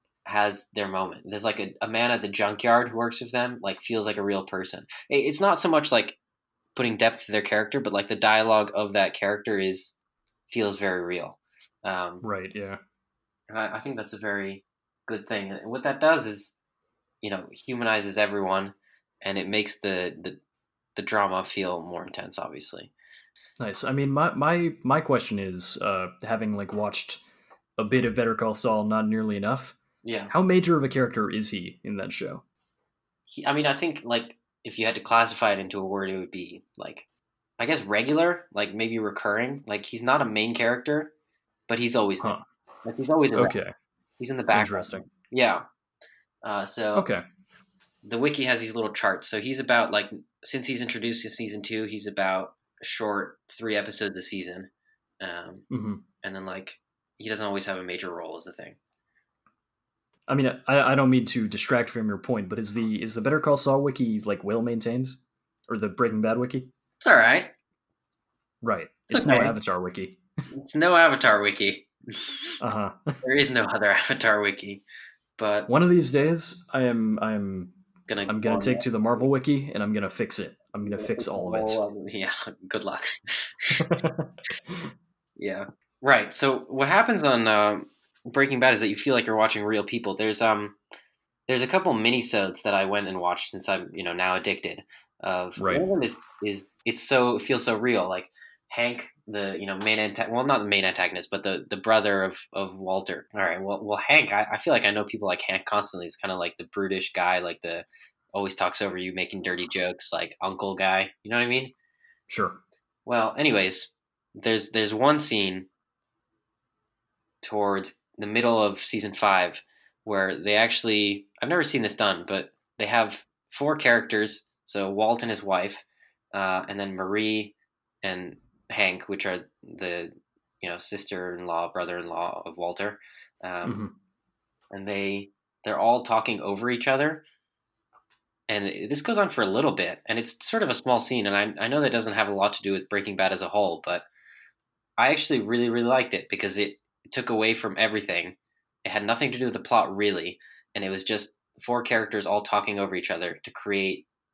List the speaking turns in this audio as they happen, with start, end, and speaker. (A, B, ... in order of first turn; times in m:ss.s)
0:00.2-0:06.2 A
0:06.7-0:10.0 A
0:10.5-0:12.2 A
0:12.2-0:12.8 B
0:13.5-0:16.5 A
0:17.2-0:20.4 A
0:21.0-0:22.9 A
0:23.6-0:27.2 B
0:27.8-0:29.8 B
0:30.0-0:30.3 A
0:30.3-0:32.4 B
0:33.3-0:37.0 A
0:37.6-0:41.1 A
0:41.7-0:43.6 A
0:43.3-0:43.7 B
0:44.2-0:45.6 A
0:44.5-0:45.0 B
0:46.4-0:47.1 A
0:46.9-0:47.2 B
0:48.0-0:54.7 A
0:55.2-0:55.6 A
0:55.7-0:56.0 B
0:56.2-0:58.8 A
1:00.3-1:05.2 B
1:05.7-1:06.7 B
1:07.0-1:07.5 A
1:08.6-1:10.2 B
1:09.1-1:09.6 A
1:10.5-1:12.6 A
1:12.6-1:13.2 B
1:13.2-1:14.8 A
1:15.4-1:15.7 A
1:15.7-1:17.7 B
1:18.1-1:19.3 A
1:18.3-1:21.8 B
1:20.8-1:23.8 A
1:23.8-1:24.8 B
1:25.4-1:30.8 A
1:31.5-1:51.7 A
1:35.6-1:35.9 B
1:52.3-1:52.6 B
1:53.0-1:55.7 A
1:57.4-2:13.8 A
2:13.6-2:13.9 B
2:14.7-2:17.2 A
2:18.5-2:24.0 A
2:25.0-2:34.1 A